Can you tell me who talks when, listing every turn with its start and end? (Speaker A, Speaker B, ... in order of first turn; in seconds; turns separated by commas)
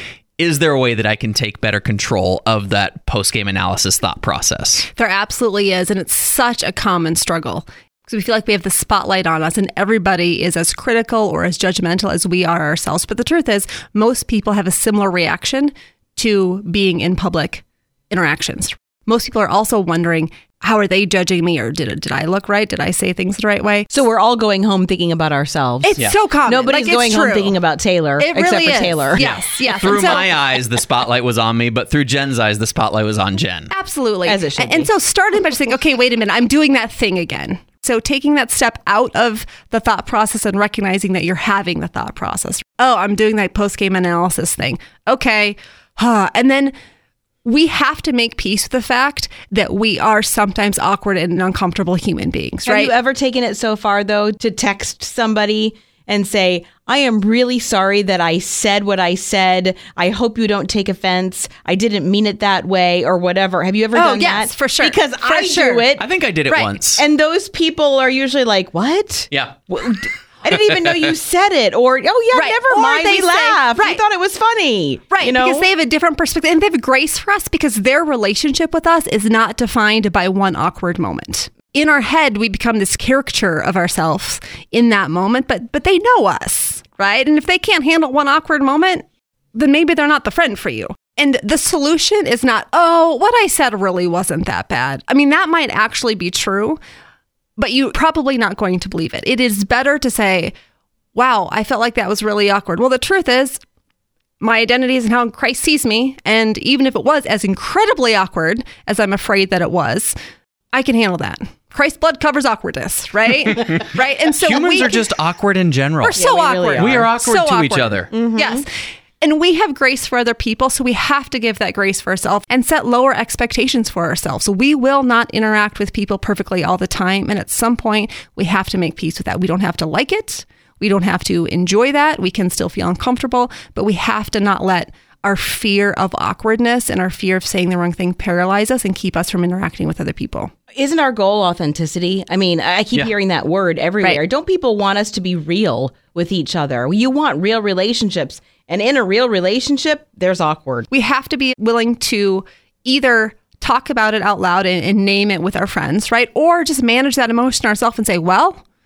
Speaker A: 0.4-4.9, Speaker B: 5.0-23.9, Speaker C: 23.9-29.2, Speaker B: 25.8-27.6, Speaker B: 28.2-30.4, Speaker A: 29.2-33.7, Speaker B: 33.7-46.7, Speaker C: 34.2-34.9, Speaker B: 47.4-52.9, Speaker C: 52.6-66.0, Speaker B: 63.9-65.9, Speaker A: 66.0-67.0, Speaker C: 66.9-75.6, Speaker A: 69.3-69.5, Speaker B: 72.3-74.0, Speaker B: 75.1-96.8, Speaker B: 97.6-100.5, Speaker B: 101.1-103.6, Speaker B: 104.4-110.1, Speaker B: 110.7-115.1, Speaker A: 114.3-118.1, Speaker B: 116.0-118.7, Speaker C: 116.1-117.1, Speaker C: 118.1-118.6, Speaker B: 119.2-140.5, Speaker C: 140.7-150.9, Speaker B: 150.9-158.6